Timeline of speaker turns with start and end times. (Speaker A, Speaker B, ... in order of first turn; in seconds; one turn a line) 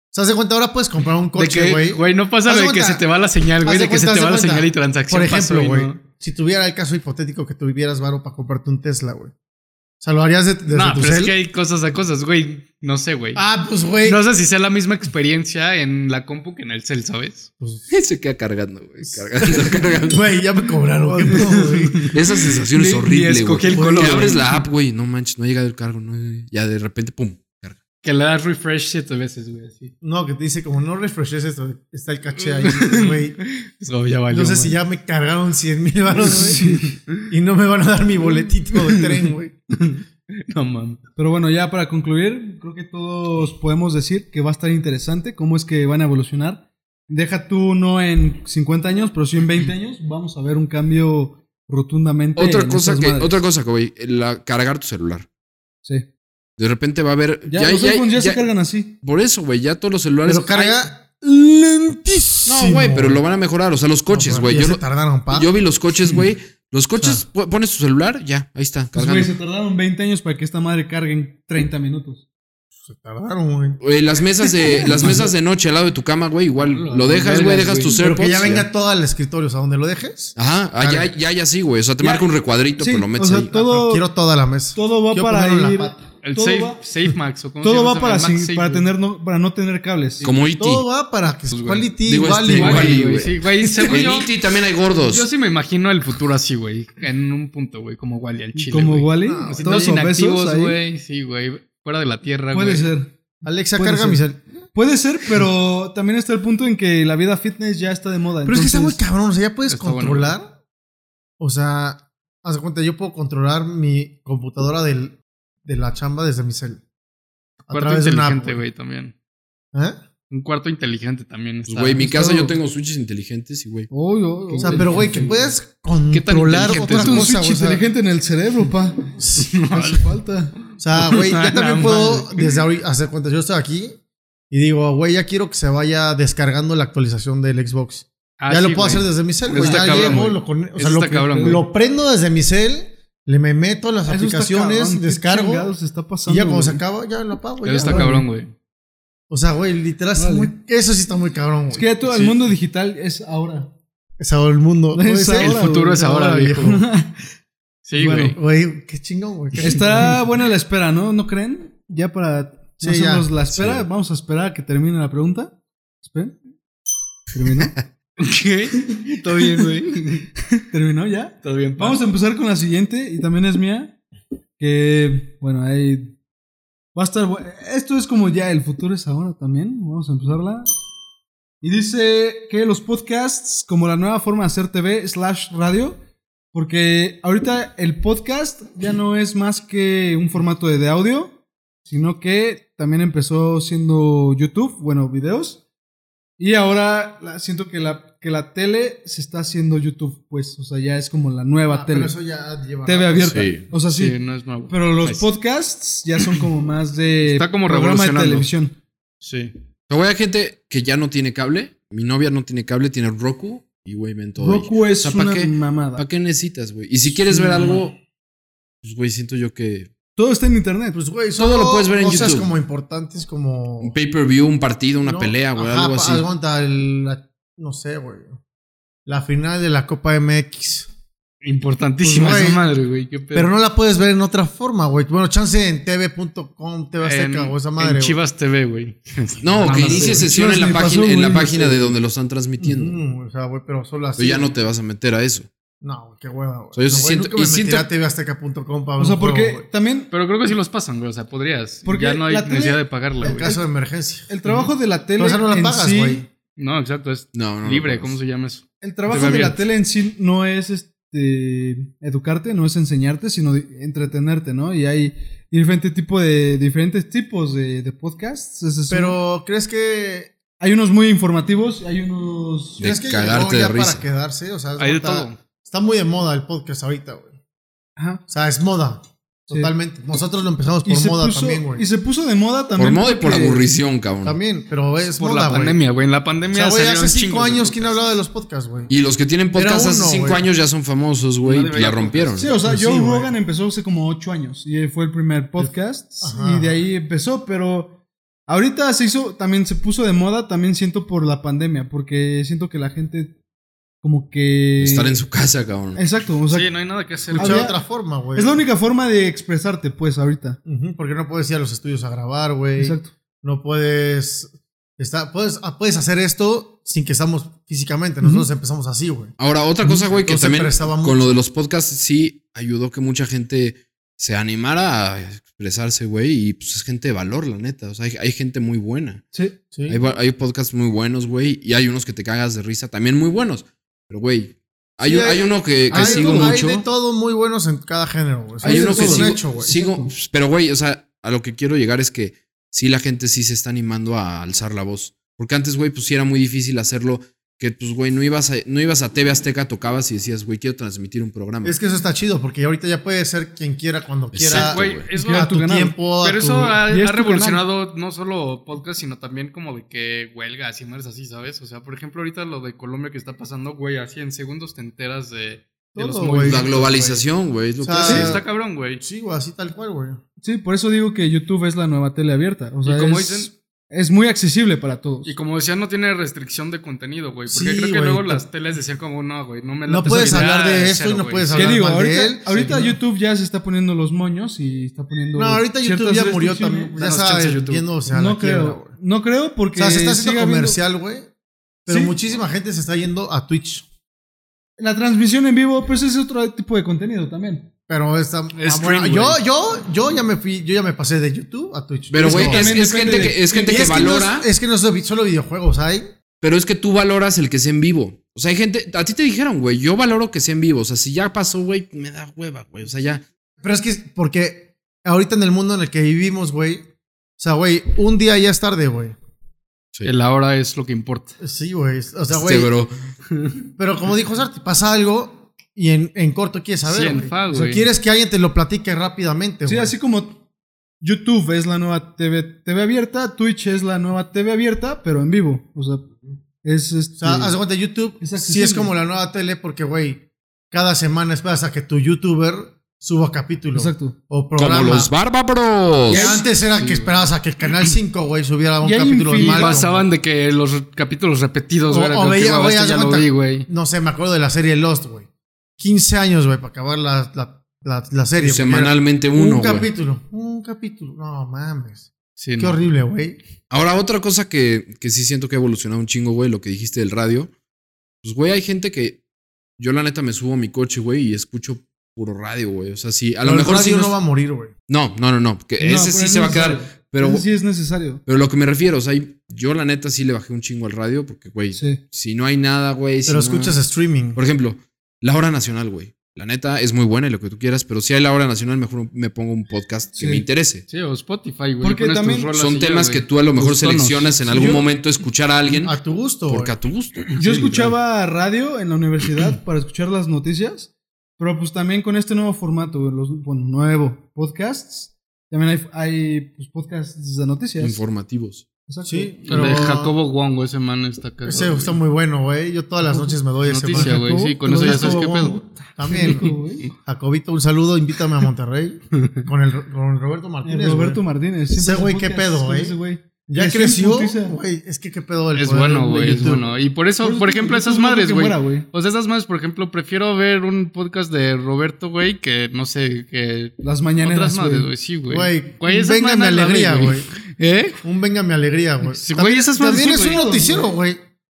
Speaker A: 0.1-3.0
Speaker B: 1.4-6.0
Speaker A: 3.6-9.3
Speaker A: 10.0-11.3
Speaker B: 10.7-13.4
Speaker A: 13.3-14.2
Speaker B: 14.0-17.5
Speaker A: 17.6-17.9
Speaker C: 17.9-20.2
Speaker A: 19.1-22.1
Speaker D: 21.1-21.7
Speaker B: 21.3-24.6
Speaker C: 22.1-27.8
Speaker A: 23.7-24.4
Speaker B: 28.0-29.9
Speaker A: 30.0-33.4
Speaker B: 32.4-34.8
Speaker A: 34.3-36.8
Speaker B: 36.3-37.2
Speaker D: 36.4-36.9
Speaker A: 37.3-39.5
Speaker B: 38.7-41.0
Speaker D: 41.1-53.4
Speaker C: 52.4-55.3
Speaker C: 56.6-58.5
Speaker D: 57.5-59.0
Speaker C: 59.0-60.8
Speaker A: 60.2-63.2
Speaker C: 62.5-69.3
Speaker A: 64.1-65.5
Speaker A: 67.0-67.2
Speaker D: 68.9-72.2
Speaker A: 72.8-73.8
Speaker C: 73.8-78.7
Speaker A: 74.6-75.2
Speaker D: 74.7-75.3
Speaker B: 76.6-78.0
Speaker A: 77.9-81.1
Speaker C: 80.3-83.5
Speaker D: 82.8-84.0
Speaker A: 83.5-86.0
Speaker D: 84.7-86.8
Speaker B: 86.2-88.9
Speaker D: 87.6-90.3
Speaker C: 90.2-90.8
Speaker A: 90.6-93.0
Speaker B: 91.5-91.9
Speaker C: 92.0-95.3
Speaker B: 92.5-94.3
Speaker B: 94.9-102.9
Speaker D: 98.5-100.8
Speaker A: 99.2-100.0
Speaker D: 102.5-103.2
Speaker A: 103.4-104.5
Speaker D: 103.7-109.0
Speaker A: 108.4-110.5
Speaker B: 109.7-110.3
Speaker A: 111.4-116.8
Speaker A: 117.7-118.6
Speaker B: 117.7-119.1
Speaker A: 119.7-120.0
Speaker B: 120.3-122.1
Speaker C: 121.7-123.9
Speaker D: 122.0-122.5
Speaker D: 123.9-125.3
Speaker B: 124.5-125.4
Speaker A: 124.6-127.8
Speaker B: 126.1-127.3
Speaker D: 126.8-130.5
Speaker A: 129.2-129.6
Speaker B: 129.4-130.2
Speaker A: 130.8-134.0
Speaker B: 130.9-132.6
Speaker A: 134.5-145.7
Speaker B: 138.4-141.6
Speaker D: 139.5-140.4
Speaker D: 141.3-141.6
Speaker D: 144.1-146.8
Speaker A: 146.2-148.2
Speaker B: 147.6-148.5
Speaker D: 147.8-148.3
Speaker A: 149.3-151.8
Speaker D: 150.2-150.5
Speaker D: 151.7-153.7
Speaker B: 152.0-152.4
Speaker A: 154.2-156.8
Speaker D: 154.9-157.2
Speaker B: 155.4-156.8
Speaker B: 157.8-158.4
Speaker D: 157.9-158.4
Speaker A: 158.1-160.2
Speaker D: 159.6-166.4
Speaker A: 162.8-163.8
Speaker D: 167.3-167.7
Speaker B: 168.2-170.3
Speaker D: 169.1-169.9
Speaker D: 170.5-174.0
Speaker B: 171.4-172.0
Speaker D: 174.6-176.2
Speaker D: 176.9-180.7
Speaker D: 181.6-186.0
Speaker D: 186.5-195.6
Speaker D: 196.4-202.1
Speaker A: 201.7-203.5
Speaker D: 202.8-204.2
Speaker C: 203.3-203.7
Speaker B: 203.9-205.2
Speaker D: 204.7-208.7
Speaker B: 207.2-208.5
Speaker B: 209.2-209.5
Speaker C: 209.9-218.0
Speaker D: 214.4-216.0
Speaker D: 217.3-217.8
Speaker C: 218.8-219.9
Speaker D: 220.2-221.0
Speaker A: 220.9-223.9
Speaker C: 221.4-222.5
Speaker C: 223.8-226.2
Speaker A: 225.0-228.4
Speaker A: 229.1-230.9
Speaker B: 231.4-233.5
Speaker A: 232.0-232.6
Speaker A: 233.3-238.2
Speaker B: 237.0-240.3
Speaker C: 239.4-243.0
Speaker D: 239.6-241.9
Speaker A: 239.9-240.2
Speaker A: 242.6-244.5
Speaker C: 244.2-245.5
Speaker A: 245.8-249.7
Speaker C: 246.7-247.9
Speaker D: 249.0-250.1
Speaker B: 250.1-253.5
Speaker D: 251.8-253.6
Speaker A: 253.2-254.3
Speaker D: 254.3-256.2
Speaker B: 254.4-254.7
Speaker A: 255.2-256.2
Speaker B: 256.6-259.6
Speaker C: 257.3-258.1
Speaker D: 258.8-269.2
Speaker A: 259.1-259.4
Speaker A: 268.9-270.3
Speaker D: 270.6-272.9
Speaker A: 272.8-277.3
Speaker C: 272.8-274.0
Speaker B: 274.8-275.4
Speaker D: 278.0-278.2
Speaker A: 278.3-281.9
Speaker D: 280.8-283.6
Speaker C: 282.8-284.4
Speaker A: 284.2-285.8
Speaker B: 285.2-288.0
Speaker A: 286.5-288.9
Speaker C: 288.9-292.5
Speaker A: 289.5-290.5
Speaker B: 291.4-292.5
Speaker D: 292.4-303.3
Speaker A: 292.6-293.3
Speaker A: 295.6-296.8
Speaker D: 304.0-305.2
Speaker C: 304.8-306.1
Speaker D: 305.9-306.8
Speaker B: 306.5-307.7
Speaker A: 307.3-308.6
Speaker D: 307.3-307.8
Speaker D: 308.3-310.6
Speaker A: 310.6-319.3
Speaker D: 312.8-313.1
Speaker D: 318.2-318.5
Speaker C: 319.4-329.2
Speaker A: 320.0-321.4
Speaker A: 329.7-330.0
Speaker C: 329.9-336.8
Speaker A: 335.0-339.8
Speaker D: 335.9-336.6
Speaker D: 338.6-340.1
Speaker C: 338.6-351.8
Speaker A: 351.6-356.8
Speaker C: 354.3-355.1
Speaker B: 354.5-355.5
Speaker D: 355.1-356.0
Speaker B: 356.2-367.2
Speaker D: 356.9-357.6
Speaker A: 365.9-366.7
Speaker C: 366.4-368.4
Speaker A: 367.8-368.4
Speaker B: 367.9-369.0
Speaker A: 369.0-370.2
Speaker D: 370.4-375.3
Speaker B: 372.8-373.5
Speaker B: 375.2-381.8
Speaker A: 377.5-378.4
Speaker A: 379.9-383.0
Speaker D: 380.0-380.4
Speaker D: 381.5-386.9
Speaker B: 382.5-382.7
Speaker A: 385.3-388.9
Speaker B: 386.9-387.9
Speaker D: 388.1-390.8
Speaker A: 389.7-391.3
Speaker A: 391.8-393.9
Speaker D: 391.9-392.1
Speaker D: 394.8-397.7
Speaker A: 397.9-406.1
Speaker B: 398.5-399.4
Speaker C: 402.1-404.5
Speaker D: 402.2-404.1
Speaker C: 406.4-413.2
Speaker A: 413.6-416.8
Speaker A: 417.4-419.1
Speaker B: 420.0-421.4
Speaker A: 421.4-422.7
Speaker C: 422.3-422.9
Speaker A: 423.8-429.9
Speaker B: 426.9-427.8
Speaker D: 429.6-430.4
Speaker D: 431.0-436.0
Speaker D: 436.6-437.6
Speaker A: 437.2-445.1
Speaker D: 438.2-438.9
Speaker D: 443.7-444.1
Speaker C: 444.6-446.4
Speaker A: 446.1-450.1
Speaker B: 446.3-447.2
Speaker D: 448.8-449.8
Speaker B: 449.3-453.7
Speaker A: 451.9-455.3
Speaker A: 455.8-463.4
Speaker C: 458.4-459.9
Speaker B: 462.4-462.8
Speaker C: 463.7-467.5
Speaker C: 468.2-469.2
Speaker C: 469.8-474.1
Speaker A: 473.4-474.7
Speaker C: 474.9-477.5
Speaker D: 475.8-478.2
Speaker C: 478.2-483.8
Speaker D: 481.7-482.0
Speaker A: 483.2-484.4
Speaker C: 484.3-490.8
Speaker D: 490.1-490.4
Speaker B: 490.9-494.8
Speaker D: 491.8-492.5
Speaker C: 492.5-495.9
Speaker D: 494.5-494.8
Speaker A: 495.7-496.7
Speaker C: 496.5-497.9
Speaker D: 497.4-508.0
Speaker B: 497.4-497.8
Speaker C: 507.8-508.6
Speaker D: 508.9-509.8
Speaker A: 509.0-510.1
Speaker B: 509.5-512.0
Speaker A: 511.4-516.5
Speaker D: 513.0-513.4
Speaker B: 513.7-516.9
Speaker D: 513.9-515.4
Speaker D: 516.0-516.9
Speaker A: 517.0-521.2
Speaker D: 520.6-524.6
Speaker A: 521.7-526.7
Speaker B: 525.5-538.0
Speaker D: 527.2-528.9
Speaker D: 533.8-534.9
Speaker A: 535.3-537.3
Speaker A: 538.0-541.2
Speaker B: 539.1-540.4
Speaker D: 539.8-540.9